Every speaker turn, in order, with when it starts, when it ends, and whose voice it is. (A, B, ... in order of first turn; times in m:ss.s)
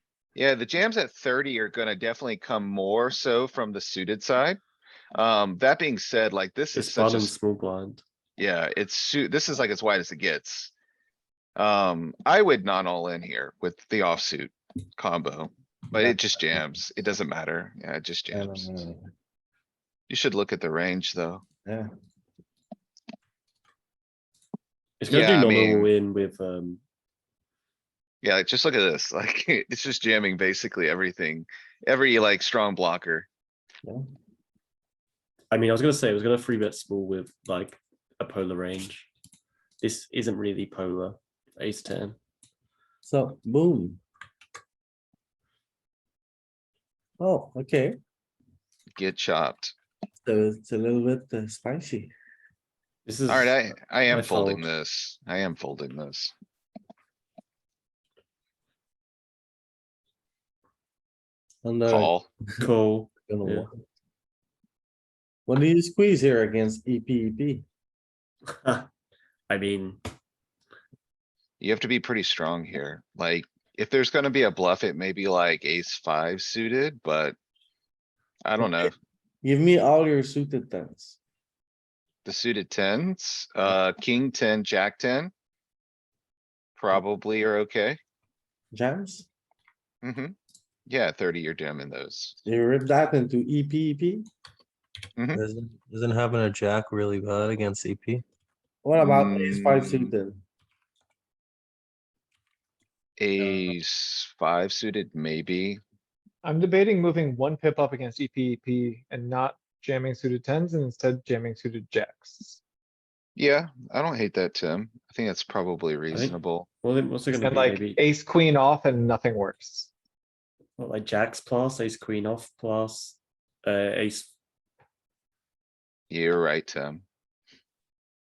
0:00.3-0:04.6 A
0:05.1-0:07.3 A
0:06.7-0:08.0 B
0:08.4-0:10.7 A
0:11.6-0:18.8 A
0:18.3-0:19.0 C
0:20.1-0:21.4 A
0:21.6-0:21.9 C
0:25.0-0:26.8 B
0:25.1-0:25.9 A
0:28.2-0:33.3 A
0:35.5-0:39.1 B
0:39.8-0:42.2 B
0:43.0-0:44.0 C
0:47.2-0:48.0 C
0:49.0-0:49.7 A
0:50.2-0:52.1 C
0:53.0-0:54.7 B
0:53.3-0:56.3 A
1:01.6-1:02.1 C
1:01.9-1:02.3 A
1:02.6-1:03.7 B
1:03.3-1:03.8 C
1:05.5-1:07.6 C
1:08.6-1:08.9 B
1:09.5-1:10.0 B
1:11.6-1:17.4 A
1:18.4-1:18.9 A
1:18.6-1:18.9 C
1:19.4-1:21.2 C
1:22.2-1:25.3 A
1:26.8-1:28.0 A
1:28.7-1:29.3 C
1:30.0-1:30.3 A
1:30.9-1:32.4 A
1:32.4-1:34.2 C
1:35.2-1:35.4 A
1:35.3-1:38.2 D
1:38.8-1:40.4 C
1:39.0-1:40.1 A
1:43.2-1:45.8 A
1:46.4-1:52.6 E
1:53.4-1:56.7 A
1:56.1-1:58.0 B
1:57.3-1:59.9 E
2:00.8-2:04.3 B
2:06.1-2:07.0 A